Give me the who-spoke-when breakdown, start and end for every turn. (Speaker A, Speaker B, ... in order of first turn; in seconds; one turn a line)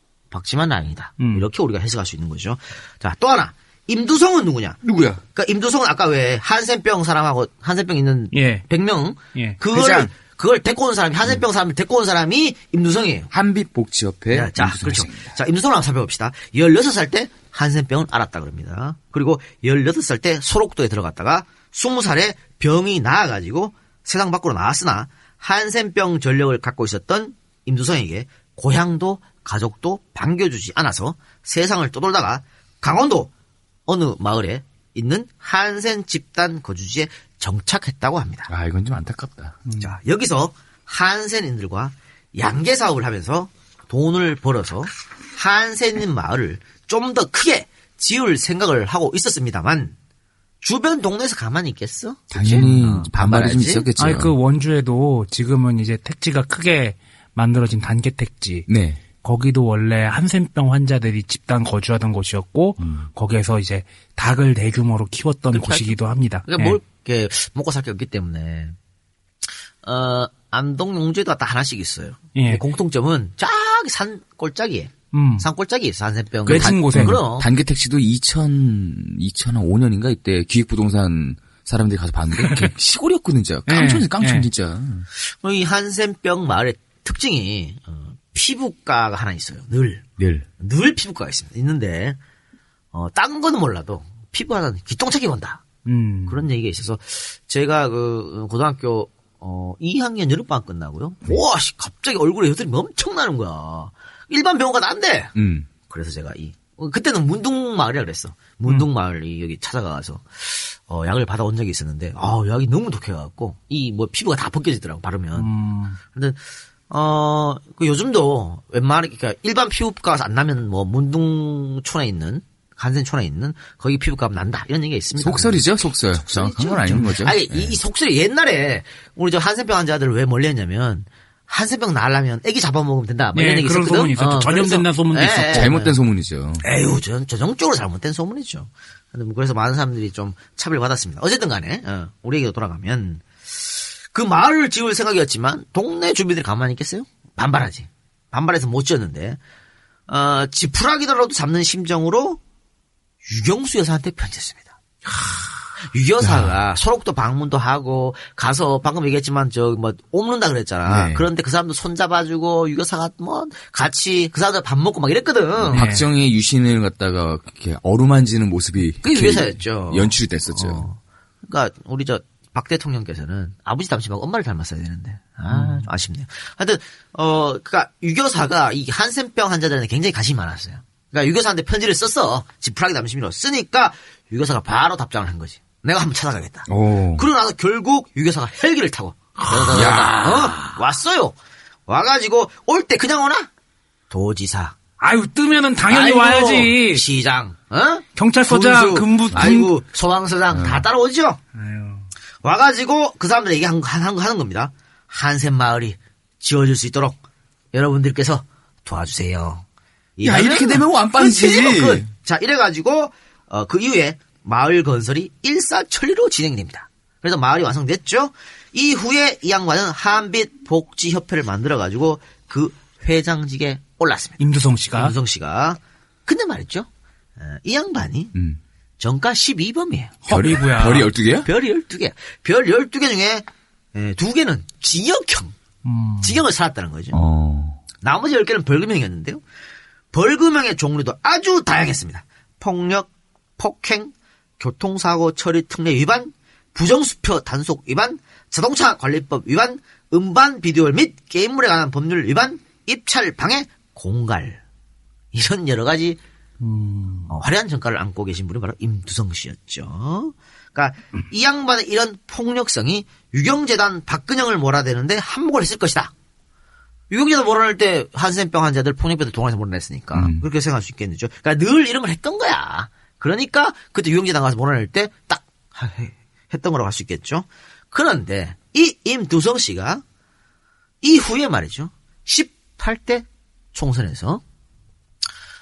Speaker A: 0.3-4.8
Speaker B: 1.2-1.4
Speaker C: 4.8-5.2
Speaker A: 5.3-13.3
Speaker B: 8.3-8.6
Speaker C: 9.7-10.1
Speaker C: 13.3-15.3
Speaker A: 14.3-33.3
Speaker A: 33.9-38.5
Speaker C: 38.5-39.6
Speaker A: 39.8-49.9
Speaker A: 50.6-53.9
Speaker C: 52.3-54.3
Speaker B: 54.0-58.7
Speaker C: 58.7-59.0
Speaker B: 59.2-66.8
Speaker C: 62.8-63.1
Speaker A: 65.5-68.7
Speaker A: 69.8-77.5
Speaker B: 72.3-72.6
Speaker B: 75.1-75.5
Speaker B: 76.4-77.2
Speaker C: 76.4-85.1
Speaker B: 83.7-84.5
Speaker A: 85.2-90.0
Speaker C: 90.2-90.5
Speaker A: 90.6-92.2
Speaker A: 92.9-95.6
Speaker B: 95.8-96.4
Speaker A: 96.3-105.3
Speaker C: 105.3-105.7
Speaker A: 105.9-115.5
Speaker B: 115.4-116.0
Speaker A: 116.1-125.6
Speaker C: 125.2-127.7
Speaker A: 126.1-135.9
Speaker B: 133.3-135.8
Speaker C: 135.5-136.6
Speaker A: 136.6-149.4
Speaker A: 150.1-152.4
Speaker A: 153.2-154.7
Speaker A: 155.8-165.9
Speaker C: 156.2-156.5
Speaker C: 160.8-161.2
Speaker C: 165.6-170.9
Speaker B: 165.7-166.0
Speaker A: 169.0-191.3
Speaker B: 175.5-175.8
Speaker C: 186.7-187.2
Speaker C: 189.5-190.7
Speaker A: 191.9-193.5
Speaker A: 194.1-194.7
Speaker B: 195.0-197.0
Speaker A: 195.9-201.4
Speaker B: 198.2-199.7
Speaker C: 200.5-200.8
Speaker B: 201.6-202.1
Speaker A: 202.4-207.2
Speaker A: 207.7-209.6
Speaker A: 210.2-224.4
Speaker C: 210.2-212.1
Speaker B: 224.4-225.1
Speaker A: 224.9-228.3
Speaker C: 228.3-228.6
Speaker A: 229.0-230.2
Speaker B: 230.2-231.1
Speaker C: 230.3-231.5
Speaker A: 231.4-235.5
Speaker B: 235.8-236.4
Speaker A: 236.2-237.2
Speaker C: 237.1-237.8
Speaker A: 238.0-239.4
Speaker A: 240.1-254.6
Speaker A: 255.3-256.2
Speaker B: 256.6-257.3
Speaker A: 257.3-266.1
Speaker A: 267.1-280.0
Speaker C: 270.1-270.4
Speaker A: 281.0-284.4